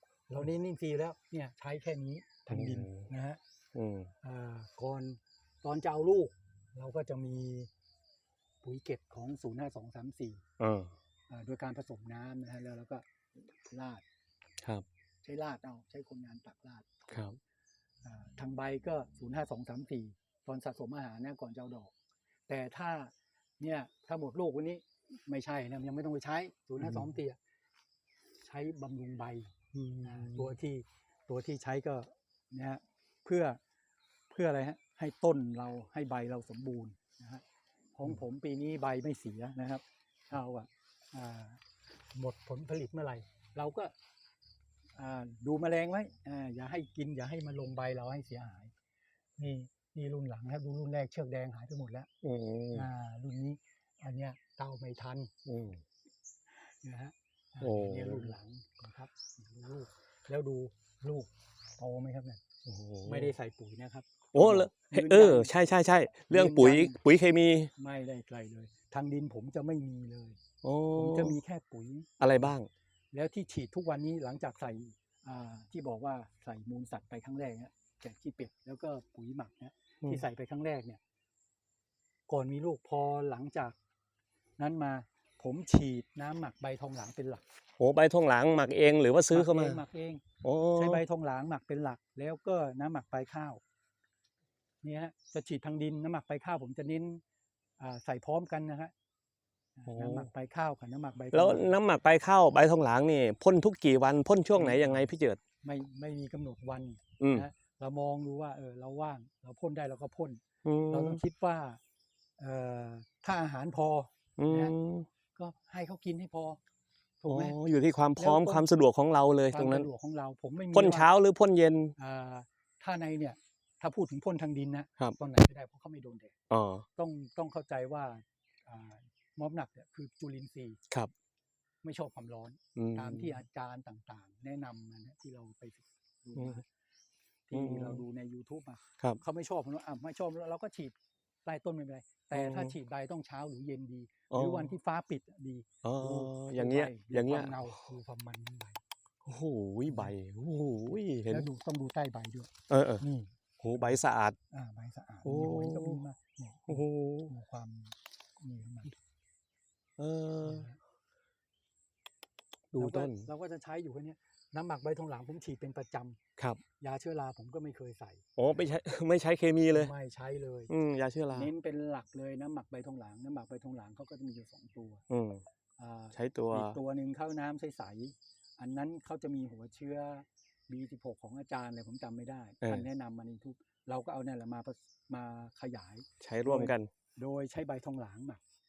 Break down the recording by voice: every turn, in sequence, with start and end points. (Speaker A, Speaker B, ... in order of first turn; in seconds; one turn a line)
Speaker A: 0.3-3.4
Speaker B: 2.5-3.1
Speaker B: 3.8-4.1
Speaker A: 4.2-7.7
Speaker A: 8.6-10.4
Speaker B: 10.6-10.9
Speaker A: 11.3-14.0
Speaker A: 15.2-17.2
Speaker B: 17.1-17.4
Speaker A: 18.0-21.9
Speaker A: 22.5-27.4
Speaker B: 26.8-27.1
Speaker A: 28.4-33.6
Speaker B: 29.8-30.5
Speaker A: 34.3-37.4
Speaker A: 38.0-41.6
Speaker A: 42.1-43.9
Speaker A: 45.0-48.7
Speaker A: 49.4-52.1
Speaker B: 52.2-52.9
Speaker A: 52.7-55.3
Speaker B: 55.5-55.8
Speaker A: 56.6-62.4
Speaker B: 57.6-58.3
Speaker B: 62.6-63.3
Speaker A: 63.0-65.5
Speaker B: 64.3-67.7
Speaker A: 66.3-67.0
Speaker A: 67.8-70.4
Speaker B: 70.6-71.3
Speaker A: 71.0-72.1
Speaker B: 72.2-72.7
Speaker A: 73.1-81.0
Speaker A: 82.3-83.8
Speaker A: 84.6-87.4
Speaker B: 87.8-89.8
Speaker A: 89.3-90.2
Speaker B: 90.4-91.0
Speaker A: 90.8-93.6
Speaker A: 94.8-97.2
Speaker A: 97.8-98.9
Speaker A: 99.8-101.7
Speaker B: 99.9-100.3
Speaker B: 101.3-105.4
Speaker A: 104.6-105.1
Speaker A: 105.6-110.4
Speaker B: 107.2-107.5
Speaker B: 110.7-111.2
Speaker A: 110.9-111.8
Speaker A: 112.4-114.8
Speaker B: 114.4-115.1
Speaker A: 115.4-116.6
Speaker A: 117.2-117.6
Speaker B: 117.3-119.9
Speaker A: 118.2-118.7
Speaker A: 119.5-121.1
Speaker B: 120.7-122.0
Speaker A: 122.0-126.3
Speaker B: 126.5-126.9
Speaker A: 127.0-130.8
Speaker A: 131.8-136.7
Speaker B: 132.8-133.4
Speaker A: 137.5-148.8
Speaker B: 137.5-138.0
Speaker B: 142.3-142.8
Speaker B: 144.3-144.7
Speaker B: 145.8-147.7
Speaker B: 149.2-151.5
Speaker A: 151.3-153.3
Speaker B: 152.7-153.1
Speaker B: 153.6-154.4
Speaker A: 154.5-158.9
Speaker B: 155.2-156.0
Speaker B: 156.7-157.3
Speaker B: 160.0-160.7
Speaker A: 160.4-160.8
Speaker B: 162.7-163.3
Speaker A: 162.8-166.2
Speaker B: 166.4-166.6
Speaker A: 166.8-168.2
Speaker B: 168.4-169.9
Speaker A: 169.7-170.7
Speaker B: 170.7-171.5
Speaker A: 171.3-175.0
Speaker B: 175.1-175.4
Speaker A: 175.8-188.4
Speaker B: 176.1-176.8
Speaker B: 186.2-186.9